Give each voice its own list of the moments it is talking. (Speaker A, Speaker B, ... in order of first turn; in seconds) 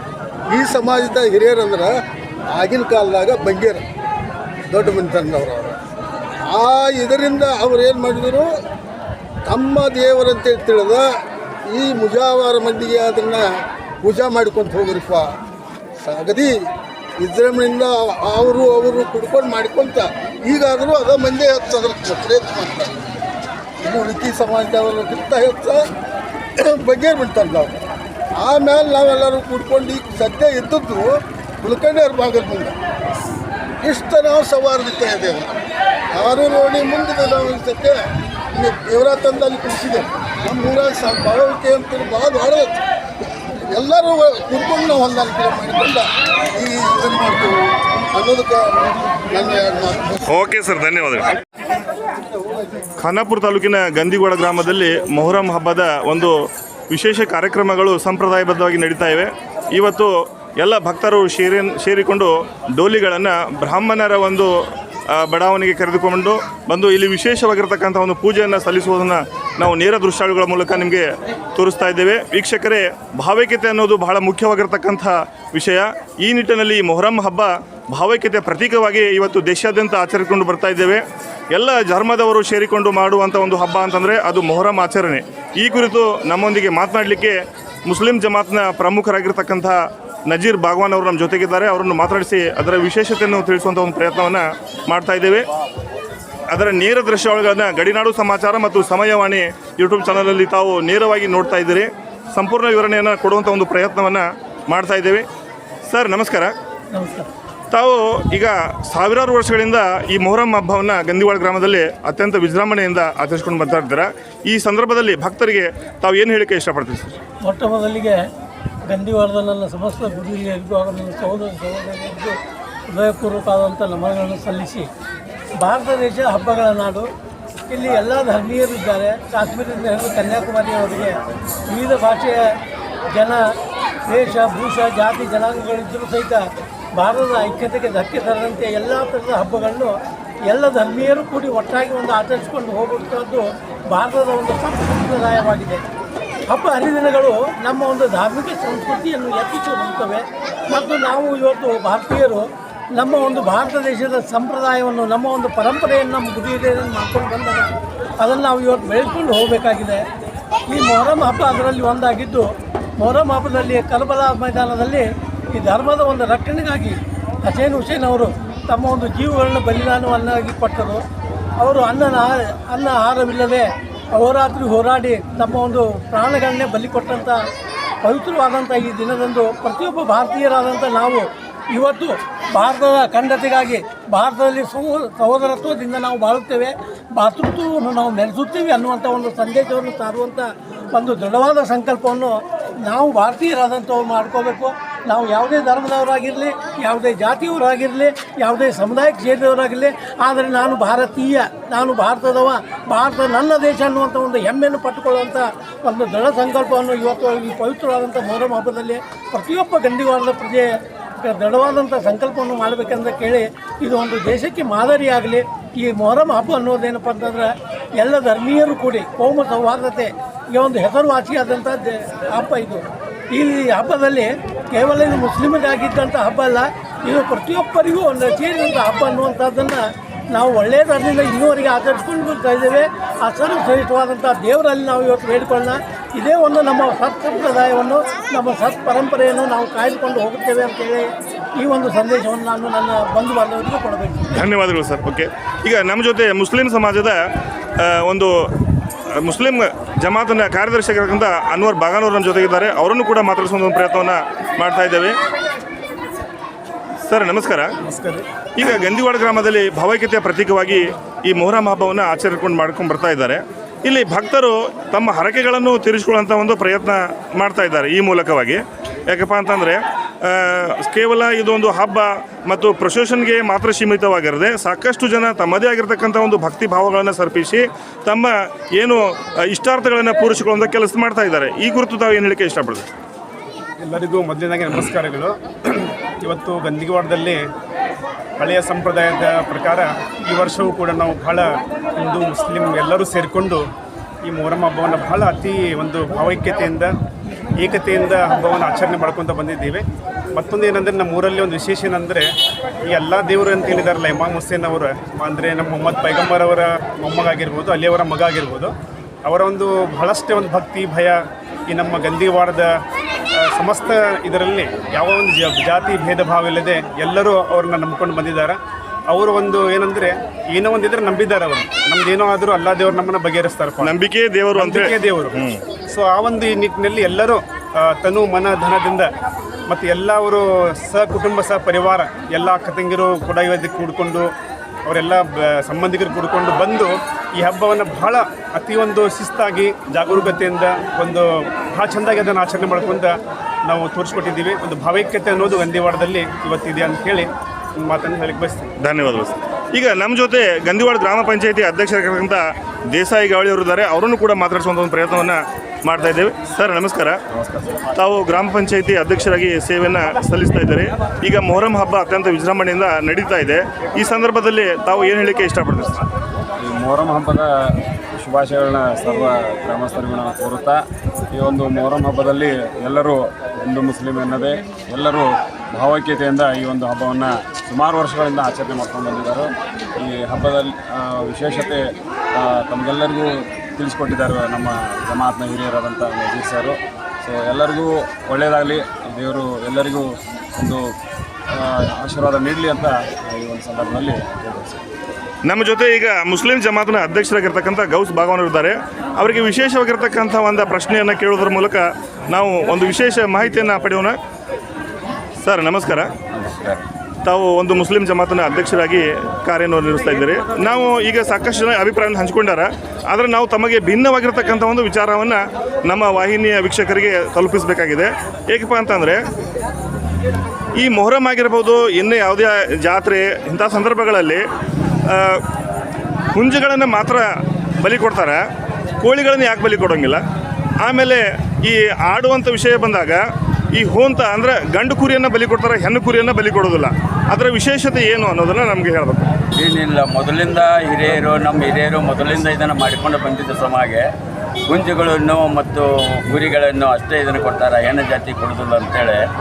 Speaker A: 0.5-1.9, 2.5-3.8, 4.7-5.8, 6.4-8.5, 9.4-11.1, 11.7-13.5, 14.0-15.3, 16.0-16.6, 17.2-23.0, 23.8-25.8, 26.6-27.8, 28.4-32.7, 33.8-35.5, 36.1-38.0, 38.5-42.8, 43.7-50.2
Speaker B: 50.3-51.3, 53.0-56.3, 56.9-64.5, 65.1-81.0, 81.5-95.5, 96.5-105.2, 105.9-106.5, 107.7-117.2, 244.3-247.2, 247.8-248.3, 249.2-255.1, 257.1-257.7, 258.6-282.9, 323.8-325.6, 348.8-352.4, 352.9-357.1, 357.9-366.0, 395.4-404.1, 405.4-406.1, 407.2-419.2, 420.8-424.4, 425.1-425.4, 426.3-427.2, 427.8-428.4, 429.0-430.2, 430.8-433.2, 433.7-439.3
Speaker C: 106.9-107.3, 117.4-118.2, 118.9-122.3, 122.9-124.9, 125.6-127.0, 127.7-131.2, 131.7-132.5, 133.1-133.4, 134.1-136.4, 137.0-139.9, 140.5-145.8, 146.5-157.7, 158.2-160.0, 160.7-162.5, 163.0-171.0, 171.6-177.4, 178.0-244.3
Speaker D: 257.8-258.2, 283.8-287.4, 288.4-293.6, 294.2-296.9, 297.6-302.3, 302.9-308.7, 309.2-312.8, 313.3-318.6, 319.1-323.9, 324.5-325.4, 325.9-329.1, 329.7-334.3, 334.9-343.1, 343.6-348.7
Speaker E: 357.4-357.7, 366.6-367.4, 368.2-370.8, 371.4-375.2, 375.7-379.4, 380.1-381.8, 382.6-383.3, 383.8-386.7, 387.2-390.0, 392.0-394.8
Speaker F: 406.3-406.8, 439.5-444.1, 444.7-449.2